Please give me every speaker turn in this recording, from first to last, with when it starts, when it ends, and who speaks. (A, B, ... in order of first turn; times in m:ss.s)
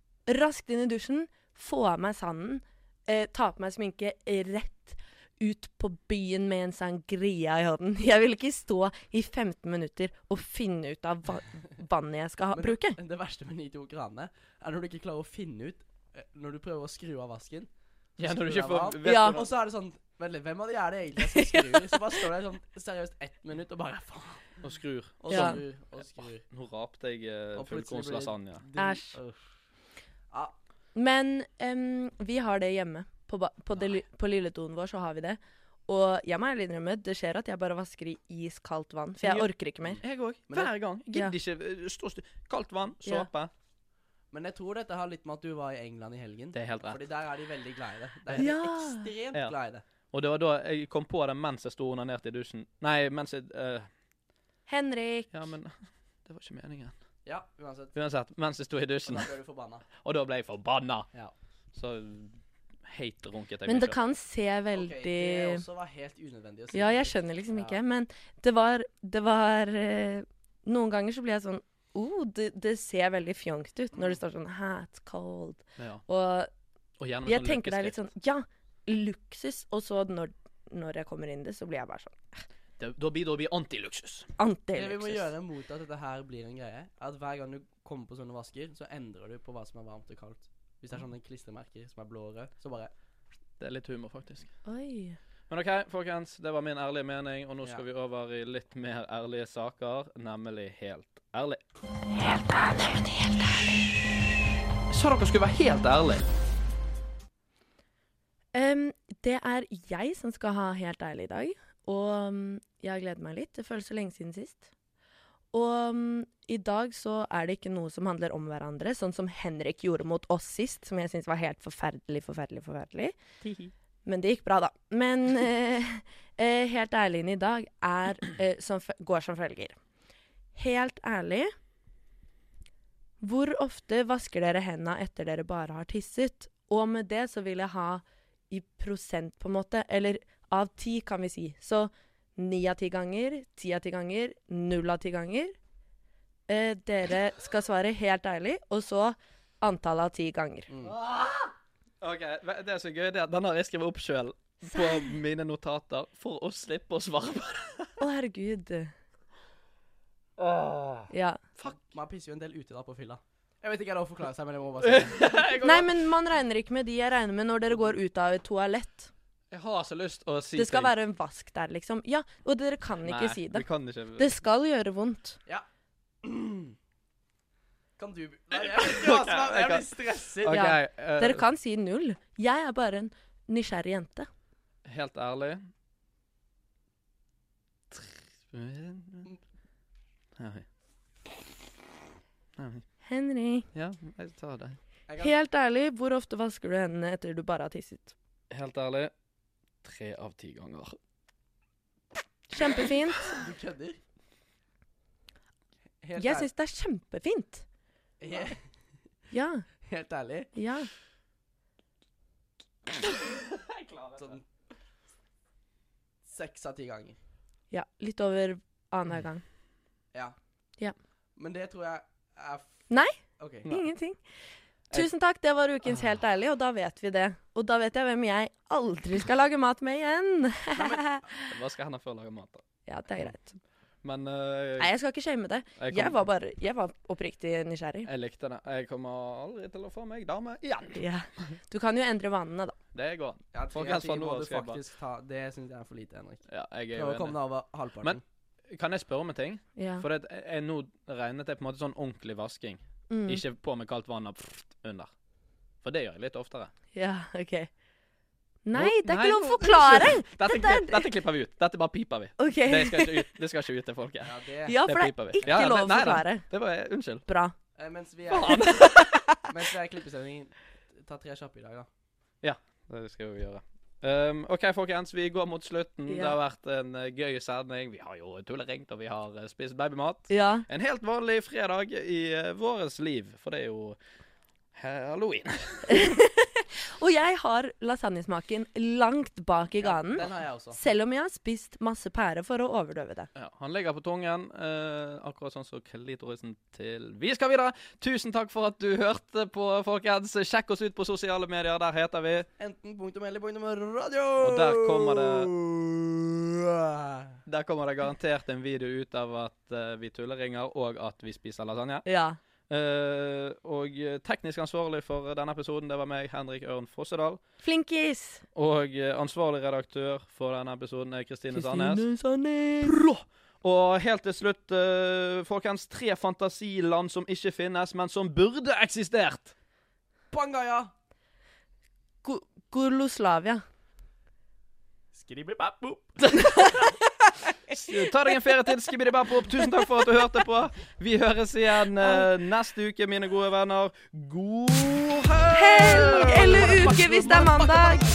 0:00.3-0:13.0 A
0:12.5-0:24.6 B
0:18.2-0:19.5 C
0:19.0-0:19.4 A
0:21.3-0:22.0 A
0:24.6-0:25.7 C
0:25.2-0:26.4 B
0:25.3-0:25.6 A
0:26.5-0:28.6 C
0:27.6-0:29.5 B
0:28.8-0:29.2 A
0:30.3-0:30.6 B
0:31.0-0:40.0 A
0:39.2-0:43.5 C
0:44.3-0:49.8 B
0:46.5-0:47.0 C
0:48.4-0:49.1 A
0:50.1-0:53.9 C
0:54.7-0:55.3 A
0:55.3-0:55.7 C
0:56.2-0:56.9 C
0:57.2-0:57.9 B
0:58.0-0:59.3 C
0:59.0-0:59.8 B
1:00.0-1:01.1 C
1:01.7-1:04.0 C
1:03.7-1:05.6 A
1:04.7-1:07.8 B
1:06.7-1:16.5 A
1:13.9-1:14.2 B
1:15.8-1:16.0 C
1:17.0-1:18.0 C
1:17.3-1:22.4 A
1:22.8-1:24.3 C
1:24.4-1:25.3 A
1:24.7-1:32.9 B
1:33.6-1:34.5 C
1:34.6-1:35.2 A
1:35.5-1:43.8 C
1:44.9-1:46.3 C
1:48.5-1:54.7 A
1:55.5-2:03.1 A
2:03.4-2:03.7 C
2:04.0-2:09.8 A
2:10.6-2:11.5 A
2:13.2-2:25.6 A
2:26.5-2:30.7 A
2:30.7-2:31.0 B
2:30.8-2:37.9 C
2:34.6-2:35.2 A
2:38.0-2:38.9 A
2:40.4-2:41.8 C
2:41.1-2:41.4 A
2:41.7-2:45.4 B
2:44.8-2:46.0 C
2:45.6-2:49.1 A
2:49.5-2:50.9 C
2:50.6-2:53.6 A
2:53.0-2:54.4 C
2:54.2-2:55.4 A
2:56.2-2:56.8 B
2:58.0-3:00.7 B
2:58.6-3:01.4 C
3:00.5-3:04.3 A
3:04.8-3:05.6 C
3:07.9-3:09.3 C
3:10.4-3:10.6 C
3:12.6-3:12.8 C
3:13.0-3:13.6 A
3:13.7-3:14.8 C
3:15.1-3:15.3 B
3:15.2-3:18.1 A
3:18.5-3:19.1 C
3:19.8-3:21.0 C
3:22.5-3:23.4 A
3:23.3-3:24.0 B
3:26.0-3:26.5 B
3:26.2-3:27.6 A
3:28.2-3:28.6 B
3:29.3-3:29.6 A
3:29.8-3:30.5 B
3:30.5-3:30.9 A
3:33.0-3:34.4 C
3:34.2-3:34.4 B
3:36.2-3:37.2 B
3:37.7-3:39.4 A
3:41.4-3:42.8 B
3:42.9-3:44.2 A
3:43.4-3:43.8 B
3:44.9-3:51.5 A
3:50.7-3:51.3 B
3:51.4-3:52.6 C
3:52.9-3:53.6 A
3:54.0-3:54.9 C
3:54.8-3:58.1 A
3:55.8-3:56.2 C
3:58.0-4:01.0 C
4:01.0-4:02.8 A
4:02.9-4:04.8 C
4:03.5-4:08.2 B
4:06.5-4:07.4 C
4:08.7-4:15.1 C
4:09.8-4:10.0 A
4:13.1-4:13.4 A
4:15.8-4:16.7 C
4:16.9-4:17.7 A
4:18.6-4:21.1 A
4:18.7-4:27.2 C
4:22.4-4:23.2 A
4:24.2-4:24.8 B
4:24.6-4:26.4 A
4:25.4-4:25.7 B
4:27.3-4:27.6 A
4:27.7-4:28.7 B
4:28.3-4:29.3 C
4:28.6-4:29.4 A
4:29.5-4:31.9 B
4:32.4-4:44.0 C
4:36.1-4:36.4 A
4:40.3-4:40.7 A
4:44.7-4:46.0 C
4:45.9-4:53.3 A
4:49.8-4:50.8 B
4:53.3-5:02.5 C
5:02.6-5:07.4 B
5:04.4-5:05.5 C
5:07.4-5:12.0 C
5:12.0-5:12.4 A
5:12.7-5:17.4 C
5:17.6-5:18.4 A
5:18.6-5:22.0 C
5:21.5-5:23.0 A
5:22.8-5:29.5 C
5:30.3-5:30.9 B
5:32.2-5:33.6 A
5:35.1-5:36.2 B
5:36.2-5:36.8 C
5:36.4-5:37.8 A
5:37.7-5:48.0 C
5:39.8-5:40.0 A
5:45.5-5:48.0 A
5:45.9-5:48.0 B